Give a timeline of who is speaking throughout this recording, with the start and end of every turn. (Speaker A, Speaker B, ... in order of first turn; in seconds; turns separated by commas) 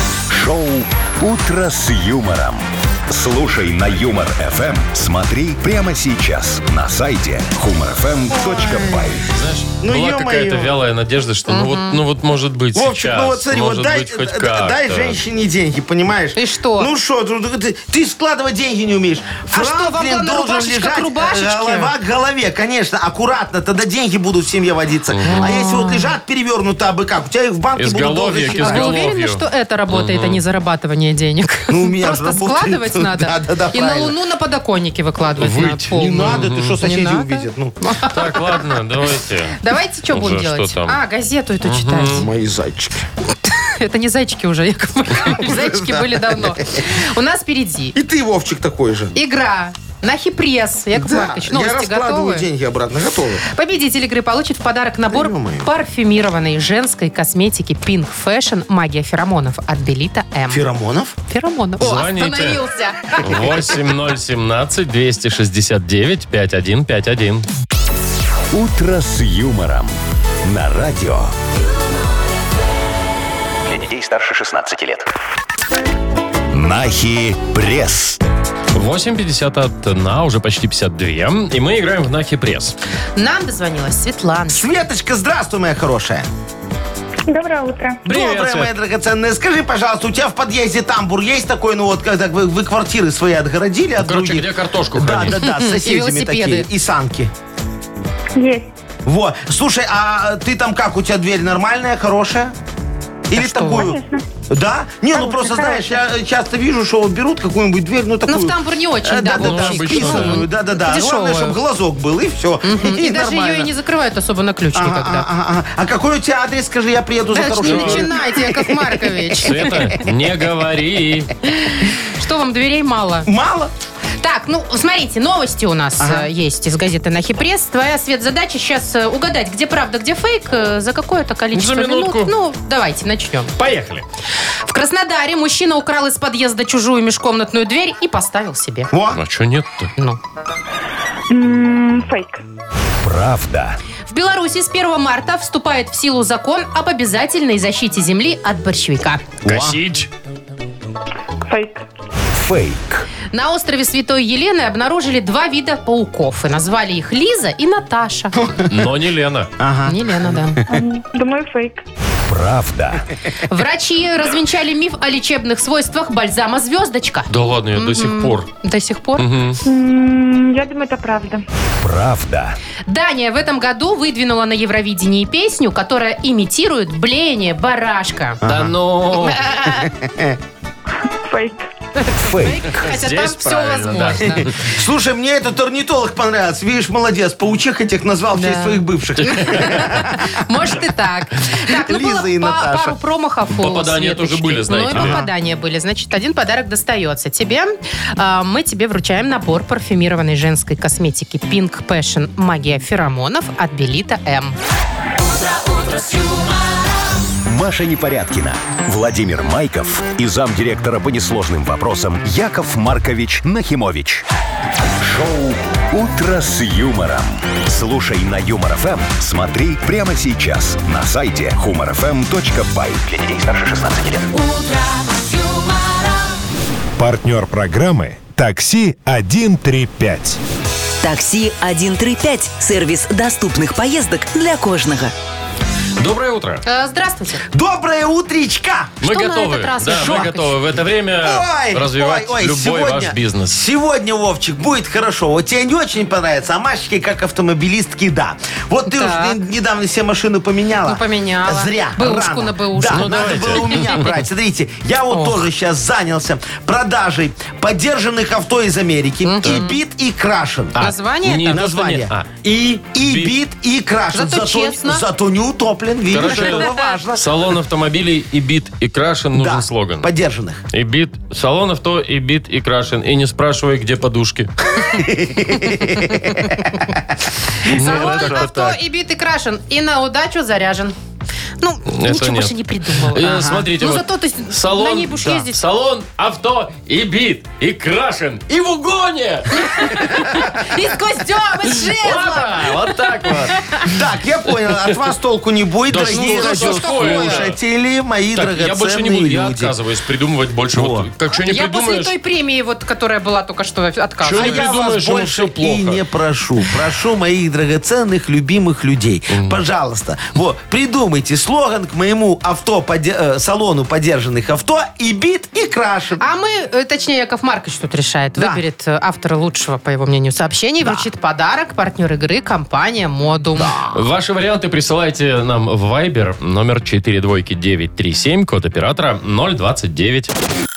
Speaker A: 0.3-9.3, Speaker B: 8.3-9.1, Speaker C: 9.3-15.2, Speaker B: 9.8-10.7, Speaker D: 11.5-12.0, Speaker B: 12.7-29.0, Speaker D: 16.3-16.9, Speaker D: 19.5-21.9, Speaker C: 25.1-25.6, Speaker D: 25.3-26.1, Speaker C: 27.8-30.4, Speaker D: 28.5-38.6, Speaker B: 31.7-34.1, Speaker C: 35.4-36.8, Speaker B: 35.9-37.7, Speaker C: 38.1-39.6, Speaker D: 39.6-42.3, Speaker C: 40.1-41.0, Speaker C: 41.6-42.2, Speaker B: 42.1-43.0, Speaker D: 43.4-47.9, Speaker B: 45.2-46.5, Speaker B: 47.9-49.1, Speaker D: 49.1-52.5, Speaker B: 50.9-53.4, Speaker D: 53.5-60.6, Speaker B: 55.1-55.7, Speaker B: 60.5-61.1, Speaker D: 61.3-63.7, Speaker C: 61.8-62.6, Speaker C: 63.2-67.5, Speaker A: 68.5-71.3, Speaker E: 73.6-75.0, Speaker A: 76.5-78.2, Speaker C: 78.7-82.8, Speaker D: 83.2-84.6, Speaker B: 84.5-86.3, Speaker F: 87.3-88.0, Speaker B: 88.0-97.3, Speaker C: 88.0-88.7, Speaker C: 94.0-95.4, Speaker D: 95.3-96.7, Speaker F: 98.3-98.7, Speaker B: 99.0-102.5, Speaker B: 103.3-113.7, Speaker D: 103.3-104.0, Speaker F: 103.8-104.2, Speaker D: 105.1-105.9, Speaker D: 108.3-111.6, Speaker C: 109.4-110.5, Speaker D: 112.6-115.3, Speaker B: 114.7-119.1, Speaker D: 117.3-119.8, Speaker C: 117.6-118.1, Speaker C: 119.4-121.3, Speaker D: 121.4-123.3, Speaker B: 123.2-123.7, Speaker D: 124.2-133.5, Speaker B: 126.0-126.3, Speaker C: 131.5-132.3, Speaker C: 133.6-134.0, Speaker D: 134.7-138.9, Speaker B: 138.9-139.2, Speaker C: 139.1-139.9, Speaker F: 141.3-142.4, Speaker A: 143.0-143.8, Speaker D: 144.1-149.2, Speaker C: 149.4-150.1, Speaker B: 149.4-149.7, Speaker F: 151.5-151.8, Speaker A: 152.3-153.1, Speaker D: 153.3-158.3, Speaker B: 158.4-158.7, Speaker C: 158.7-159.5, Speaker B: 159.6-160.5, Speaker D: 159.8-160.6, Speaker F: 160.7-161.8, Speaker A: 162.3-163.1, Speaker D: 163.5-169.2, Speaker C: 167.3-168.5, Speaker C: 169.2-169.6, Speaker F: 169.6-171.4, Speaker A: 171.8-172.6, Speaker D: 172.9-178.4, Speaker B: 178.4-178.7, Speaker C: 178.4-179.4, Speaker D: 179.1-179.9, Speaker B: 179.7-180.4, Speaker F: 181.2-181.7, Speaker D: 182.0-184.5, Speaker A: 182.2-182.8, Speaker C: 182.8-184.6, Speaker B: 184.5-190.2, Speaker D: 188.3-204.6, Speaker C: 189.2-190.0, Speaker B: 191.7-192.9, Speaker C: 193.5-195.2, Speaker B: 194.9-195.3, Speaker G: 205.4-206.8, Speaker A: 207.4-214.2, Speaker A: 215.0-223.0, Speaker E: 223.0-224.3, Speaker G: 224.3-226.2, Speaker H: 227.0-230.4, Speaker G: 231.0-235.1, Speaker C: 236.0-236.6, Speaker D: 236.6-237.4, Speaker B: 237.5-238.9, Speaker C: 239.0-243.6, Speaker D: 239.0-240.5, Speaker B: 239.9-240.3, Speaker B: 241.2-260.8, Speaker D: 248.8-249.3, Speaker D: 250.8-254.0, Speaker C: 252.9-254.1, Speaker D: 255.1-255.4, Speaker D: 259.2-259.8, Speaker C: 259.4-259.7, Speaker C: 260.8-262.3, Speaker D: 260.8-261.6, Speaker B: 261.5-267.2, Speaker C: 263.0-263.3, Speaker D: 264.1-265.1, Speaker C: 266.1-270.1, Speaker D: 266.2-266.9, Speaker B: 269.3-270.6, Speaker C: 270.7-274.5, Speaker B: 274.7-276.9, Speaker C: 277.7-278.8, Speaker B: 277.7-278.5, Speaker D: 277.7-280.9, Speaker D: 281.6-285.6, Speaker C: 281.9-290.4, Speaker B: 283.3-283.6, Speaker D: 289.5-293.9, Speaker C: 291.8-293.7, Speaker B: 293.8-299.7, Speaker C: 295.9-297.6, Speaker D: 296.0-297.5, Speaker C: 298.3-302.1, Speaker B: 300.7-301.1, Speaker D: 301.4-304.7, Speaker C: 304.2-306.0, Speaker B: 304.3-316.2, Speaker C: 309.3-309.6, Speaker D: 316.2-323.8, Speaker B: 318.4-318.6, Speaker B: 320.8-321.1, Speaker B: 323.6-324.0, Speaker C: 323.9-330.3